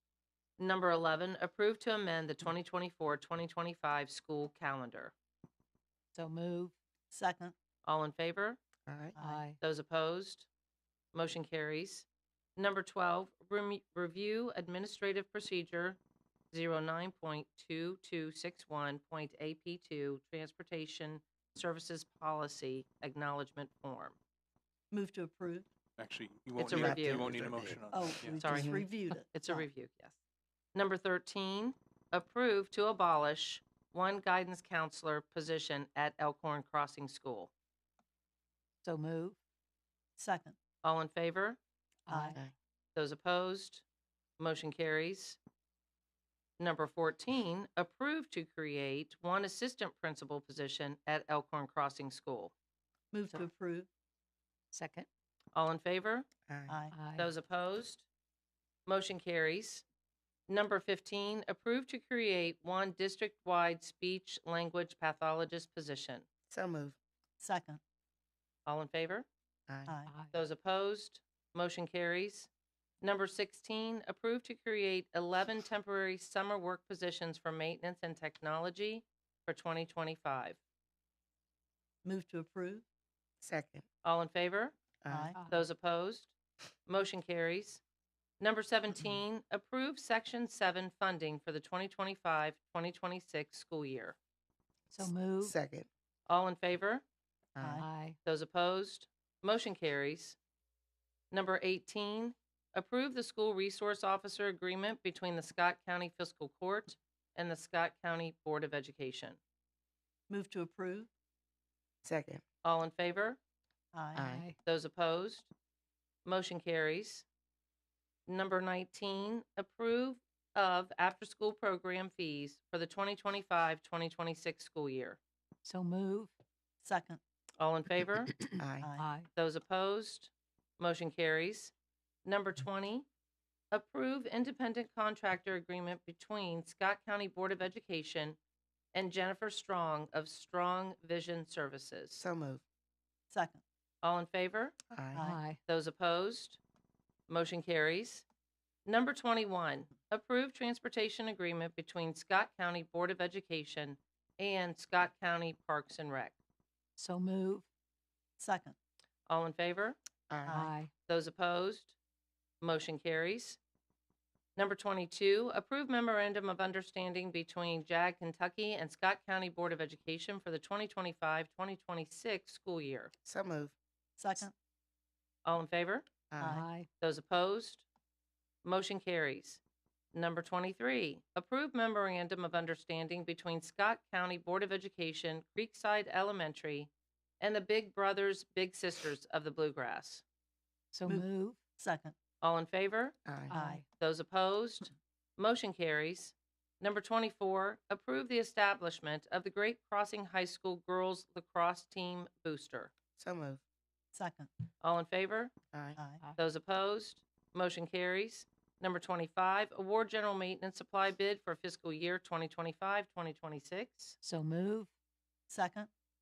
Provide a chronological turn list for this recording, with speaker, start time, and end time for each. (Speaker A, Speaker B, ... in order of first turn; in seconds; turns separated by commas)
Speaker A: 0.6-5.1, Speaker B: 6.1-6.7, Speaker C: 7.1-7.5, Speaker A: 7.8-8.6, Speaker D: 8.9-9.2, Speaker C: 9.1-9.5, Speaker B: 9.2-9.6, Speaker A: 9.6-10.5, Speaker A: 11.1-16.0, Speaker A: 16.5-24.2, Speaker C: 24.9-25.7, Speaker E: 26.0-28.5, Speaker A: 26.6-27.3, Speaker D: 26.6-27.8, Speaker C: 27.9-29.7, Speaker A: 28.4-30.2, Speaker D: 28.4-28.8, Speaker A: 30.7-37.5, Speaker B: 38.8-39.4, Speaker C: 40.2-40.5, Speaker A: 40.8-41.6, Speaker B: 42.1-42.4, Speaker C: 42.1-42.4, Speaker A: 42.9-43.8, Speaker A: 44.4-45.4, Speaker A: 46.6-52.5, Speaker C: 53.1-53.9, Speaker B: 54.7-55.1, Speaker A: 55.5-56.3, Speaker D: 56.5-56.8, Speaker C: 56.7-56.9, Speaker B: 56.9-57.3, Speaker A: 57.2-58.0, Speaker A: 58.9-59.8, Speaker A: 60.5-66.2, Speaker D: 66.5-67.0, Speaker C: 67.4-67.8, Speaker A: 68.7-69.3, Speaker D: 69.7-69.9, Speaker C: 69.9-70.1, Speaker B: 70.0-70.3, Speaker A: 70.3-72.5, Speaker A: 73.0-80.6, Speaker C: 82.0-82.8, Speaker D: 83.4-83.8, Speaker A: 84.0-84.8, Speaker D: 85.0-85.3, Speaker C: 85.1-85.4, Speaker B: 85.3-85.7, Speaker A: 85.5-86.3, Speaker A: 86.9-87.8, Speaker A: 88.4-94.2, Speaker B: 94.9-95.5, Speaker D: 95.4-95.9, Speaker A: 96.3-97.0, Speaker D: 97.5-97.8, Speaker C: 97.6-97.9, Speaker B: 97.8-98.2, Speaker A: 98.2-100.4, Speaker A: 101.3-109.4, Speaker C: 110.3-111.1, Speaker D: 112.0-112.4, Speaker A: 112.6-113.4, Speaker C: 113.9-114.3, Speaker D: 114.1-114.5, Speaker B: 114.2-114.5, Speaker A: 114.6-115.5, Speaker A: 116.2-117.2, Speaker A: 118.3-125.2, Speaker B: 125.6-126.3, Speaker C: 126.8-127.2, Speaker A: 127.6-128.3, Speaker D: 128.6-128.9, Speaker C: 128.8-129.1, Speaker B: 129.0-129.3, Speaker A: 129.3-131.7, Speaker A: 132.2-133.1, Speaker A: 133.7-138.4, Speaker A: 138.9-142.2, Speaker D: 142.2-142.6, Speaker C: 143.3-143.6, Speaker A: 144.0-144.8, Speaker D: 144.9-145.3, Speaker C: 145.1-145.4, Speaker B: 145.2-145.6, Speaker A: 145.7-146.6, Speaker A: 147.3-148.2, Speaker A: 148.8-156.4, Speaker B: 157.0-157.6, Speaker C: 158.4-158.7, Speaker A: 159.3-159.9, Speaker D: 160.3-160.7, Speaker C: 160.4-160.7, Speaker B: 160.5-160.9, Speaker A: 161.1-161.9, Speaker A: 162.6-163.6, Speaker A: 164.6-173.1, Speaker D: 173.2-173.7, Speaker C: 174.2-174.5, Speaker A: 175.4-176.1, Speaker D: 176.3-176.6, Speaker C: 176.4-176.6, Speaker B: 176.4-176.9, Speaker A: 177.0-177.8, Speaker A: 178.6-179.6, Speaker A: 180.1-190.2, Speaker B: 190.9-191.6, Speaker C: 191.8-192.1, Speaker A: 192.4-193.2, Speaker D: 193.2-193.6, Speaker B: 193.5-193.8, Speaker C: 193.5-193.8, Speaker A: 194.0-202.9, Speaker D: 203.2-203.6, Speaker C: 204.1-204.5, Speaker A: 204.8-205.5, Speaker D: 205.7-206.0, Speaker C: 205.9-206.2, Speaker A: 206.4-214.2, Speaker B: 214.2-214.9, Speaker C: 215.5-215.9